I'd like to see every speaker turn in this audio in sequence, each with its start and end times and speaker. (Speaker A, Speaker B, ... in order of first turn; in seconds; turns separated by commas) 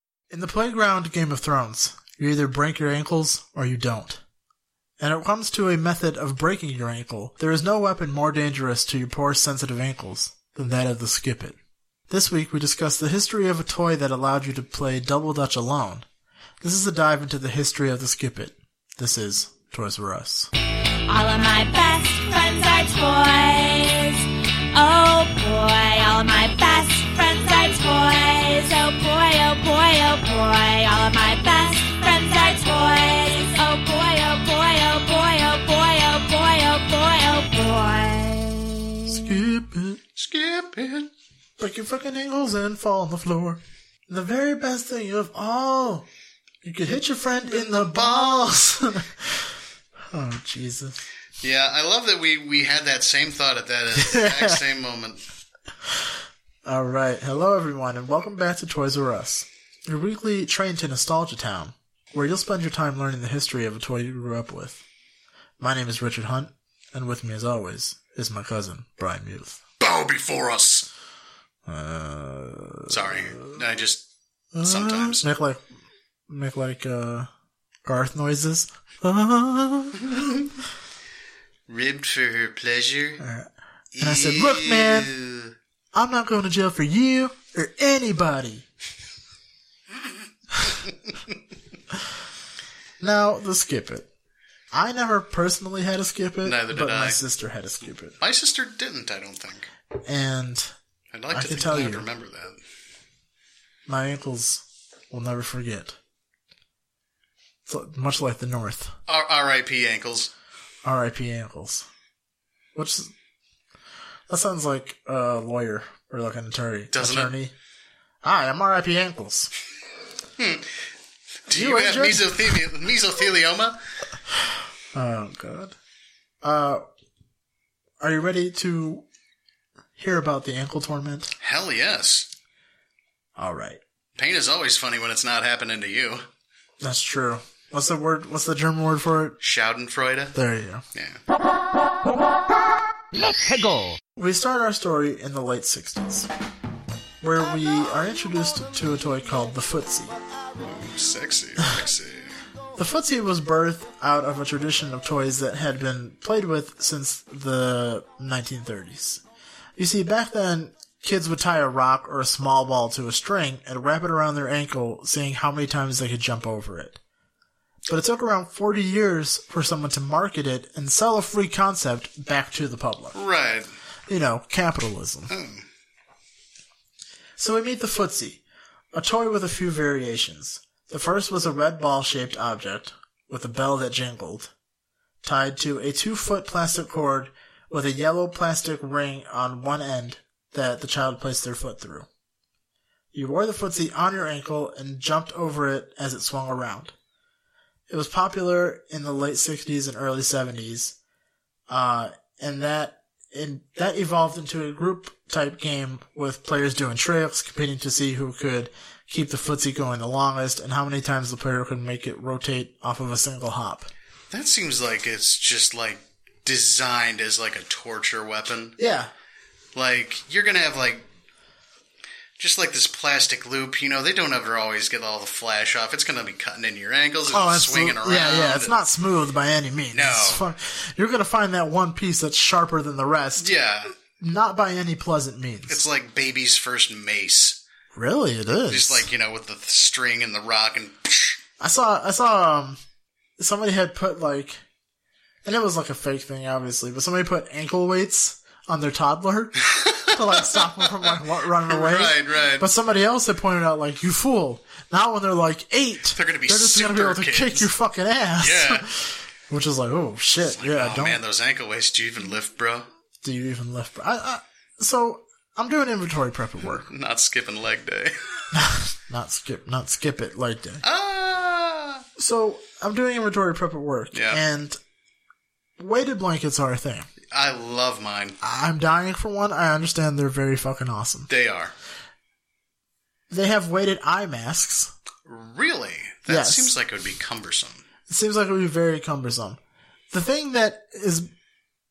Speaker A: 0.3-4.2, Speaker A: 5.0-11.6, Speaker A: 12.1-16.1, Speaker A: 16.6-20.5, Speaker B: 21.1-39.4, Speaker A: 39.1-40.0, Speaker C: 40.1-41.1, Speaker A: 41.6-46.1, Speaker A: 46.6-49.5, Speaker A: 50.1-51.0, Speaker C: 51.4-55.2, Speaker A: 54.0-54.6, Speaker A: 56.6-64.8, Speaker A: 65.6-69.6, Speaker C: 69.8-70.9, Speaker A: 71.6-73.6, Speaker C: 72.9-74.0, Speaker A: 74.5-75.6, Speaker C: 74.6-75.3, Speaker A: 76.3-77.3, Speaker A: 77.8-80.1, Speaker C: 80.0-80.5, Speaker C: 81.7-83.2, Speaker A: 83.2-83.5, Speaker C: 83.9-85.5, Speaker A: 84.0-85.1, Speaker A: 85.9-88.7, Speaker A: 93.0-94.1, Speaker A: 94.7-98.2, Speaker C: 96.4-97.2, Speaker C: 98.2-99.7, Speaker A: 100.0-100.7, Speaker C: 101.1-102.6, Speaker A: 101.3-102.1, Speaker A: 103.9-106.0, Speaker A: 107.7-108.9, Speaker C: 109.1-110.3, Speaker A: 110.8-111.9, Speaker A: 112.7-113.1, Speaker A: 114.3-117.5, Speaker C: 116.9-117.3, Speaker A: 118.2-119.5, Speaker C: 120.4-120.8, Speaker C: 121.5-123.8, Speaker A: 121.5-122.5, Speaker A: 124.9-125.7, Speaker A: 126.4-126.8, Speaker A: 128.0-129.0, Speaker A: 130.0-131.3, Speaker C: 131.4-132.3, Speaker A: 133.4-133.8, Speaker C: 134.2-136.2, Speaker A: 136.8-139.4, Speaker C: 139.4-140.3, Speaker A: 140.3-140.8, Speaker C: 140.9-141.2, Speaker A: 144.2-146.3, Speaker A: 147.2-150.2, Speaker C: 150.6-152.4, Speaker A: 152.7-159.2, Speaker A: 159.8-167.0, Speaker A: 167.9-173.2, Speaker C: 173.1-173.7, Speaker A: 174.1-175.3, Speaker C: 175.3-175.6, Speaker A: 177.4-178.4, Speaker A: 178.9-184.5, Speaker A: 185.2-192.1, Speaker A: 193.1-196.9, Speaker A: 197.9-201.0, Speaker A: 201.7-213.9, Speaker C: 214.3-218.8, Speaker A: 218.8-219.1, Speaker C: 219.7-221.1, Speaker C: 222.4-228.9, Speaker A: 227.3-233.5, Speaker C: 229.9-230.4, Speaker C: 233.4-233.9, Speaker A: 234.2-235.8, Speaker C: 235.7-237.6, Speaker A: 237.9-239.1, Speaker C: 238.7-241.4, Speaker A: 241.6-242.8, Speaker A: 243.4-244.6, Speaker A: 245.4-261.2, Speaker C: 249.6-252.7, Speaker C: 256.1-257.7, Speaker C: 258.4-258.9, Speaker C: 260.4-262.9, Speaker A: 263.2-266.9, Speaker C: 266.6-268.5, Speaker A: 268.5-270.8, Speaker C: 270.8-272.0, Speaker A: 272.2-274.8, Speaker C: 274.1-274.4, Speaker A: 275.8-277.1, Speaker C: 277.3-278.4, Speaker A: 278.4-281.3, Speaker C: 281.3-281.7, Speaker A: 283.3-284.9, Speaker C: 285.2-287.8, Speaker A: 286.3-286.8, Speaker A: 288.1-289.6, Speaker A: 290.1-291.3